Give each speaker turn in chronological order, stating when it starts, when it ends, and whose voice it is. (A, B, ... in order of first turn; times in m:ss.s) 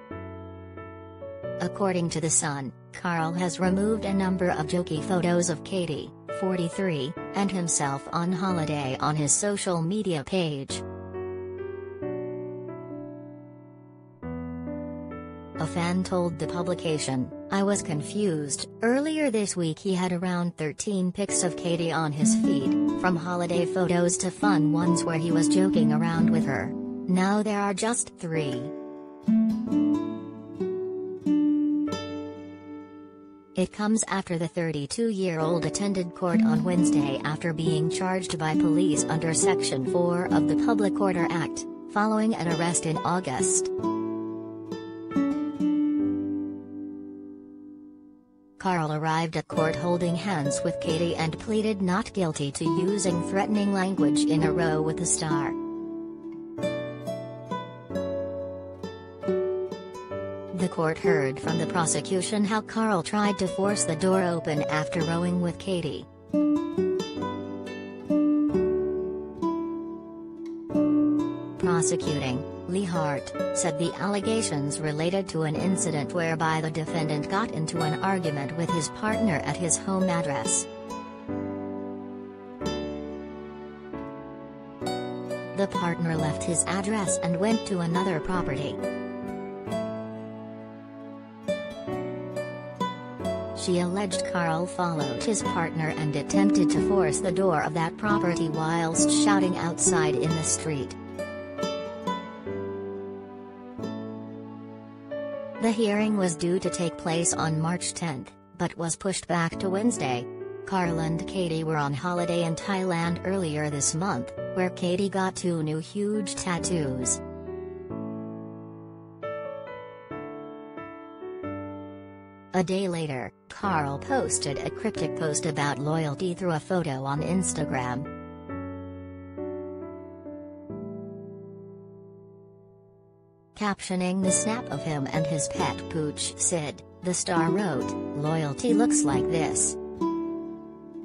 0:01.6-0:10.8 A
0:15.6-0:28.7 A
0:33.5-0:43.7 A
0:48.6-0:55.6 A
1:00.5-1:06.1 A
1:11.6-1:20.7 A
1:25.5-1:28.8 A
1:33.5-1:41.0 A
1:45.6-1:57.2 A
2:02.5-2:08.1 A
2:13.5-2:19.8 A